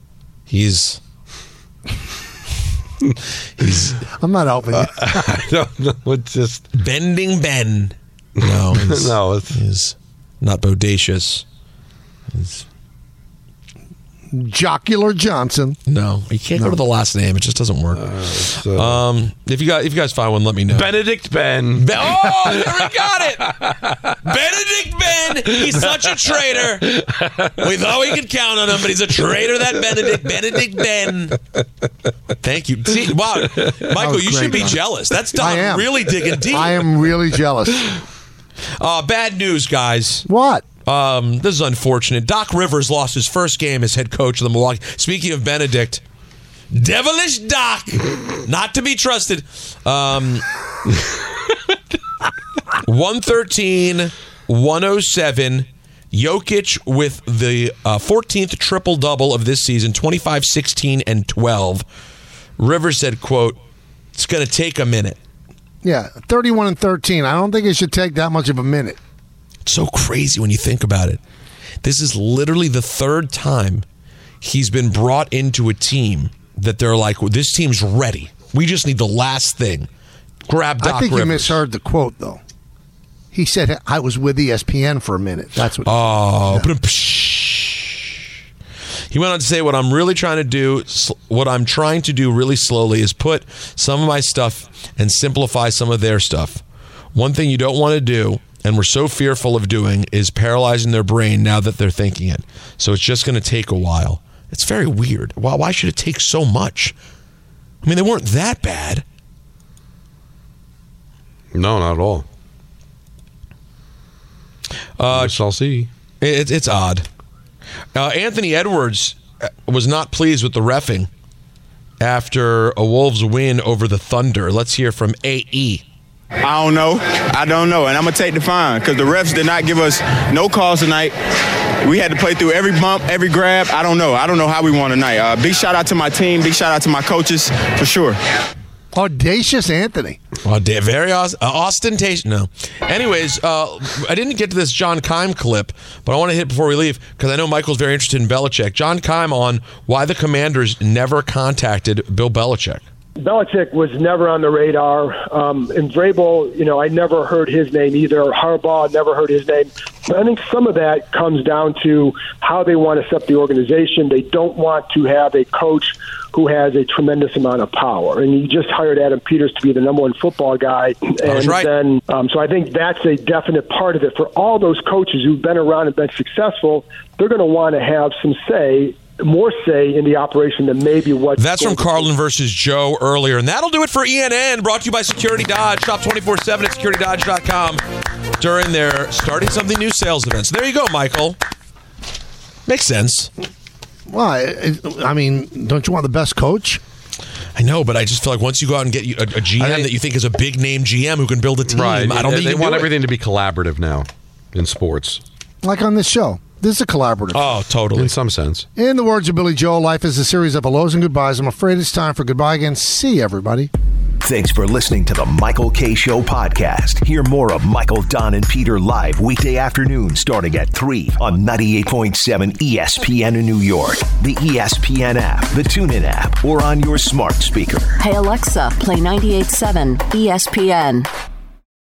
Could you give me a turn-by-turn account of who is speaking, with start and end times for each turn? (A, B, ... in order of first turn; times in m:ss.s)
0:00.5-0:01.0 A
0:03.6-0:03.9 A
0:04.1-0:05.3 B
0:04.7-0:06.7 C
0:06.7-0:11.4 A
0:08.4-0:09.6 C
0:12.3-0:12.6 A
0:14.3-0:15.8 B
0:15.9-0:20.9 A
0:18.0-0:19.0 C
0:20.7-0:24.1 C
0:21.8-0:23.6 A
0:24.2-0:31.4 A
0:25.6-0:26.0 C
0:26.9-0:27.5 C
0:32.4-0:36.9 A
0:33.9-0:34.8 B
0:35.4-0:38.0 B
0:38.8-0:40.3 A
0:40.3-0:40.6 B
0:40.8-0:46.0 A
0:46.7-0:50.4 A
0:52.8-1:01.9 A
1:02.6-1:03.6 A
1:04.2-1:05.2 A
1:05.8-1:09.0 B
1:09.6-1:11.2 A
1:11.8-1:13.8 A
1:14.4-1:19.9 A
1:20.5-1:21.6 A
1:20.8-1:22.4 B
1:23.3-1:26.7 B
1:25.8-1:28.2 A
1:29.1-1:36.6 A
1:37.1-1:47.0 A
1:47.8-1:49.0 A
1:51.5-1:52.2 C
1:55.0-1:55.4 A
1:55.1-1:55.9 C
1:56.2-1:57.1 A
1:58.0-2:01.1 A
2:02.0-2:05.8 A
2:06.4-2:11.1 D
2:11.8-2:18.2 D
2:18.9-2:20.2 B
2:20.4-2:32.8 A
2:33.2-3:02.1 E
2:51.2-2:51.7 A
3:01.4-3:07.8 A
3:08.4-3:11.4 A
3:12.7-3:13.3 A
3:14.1-3:16.8 B
3:17.6-3:22.9 A
3:19.6-3:19.9 C
3:21.7-3:25.2 C
3:25.6-3:27.5 B
3:27.3-3:28.2 A
3:28.0-3:28.7 C
3:28.8-3:33.7 B
3:34.2-3:47.9 F
3:48.0-3:51.1 G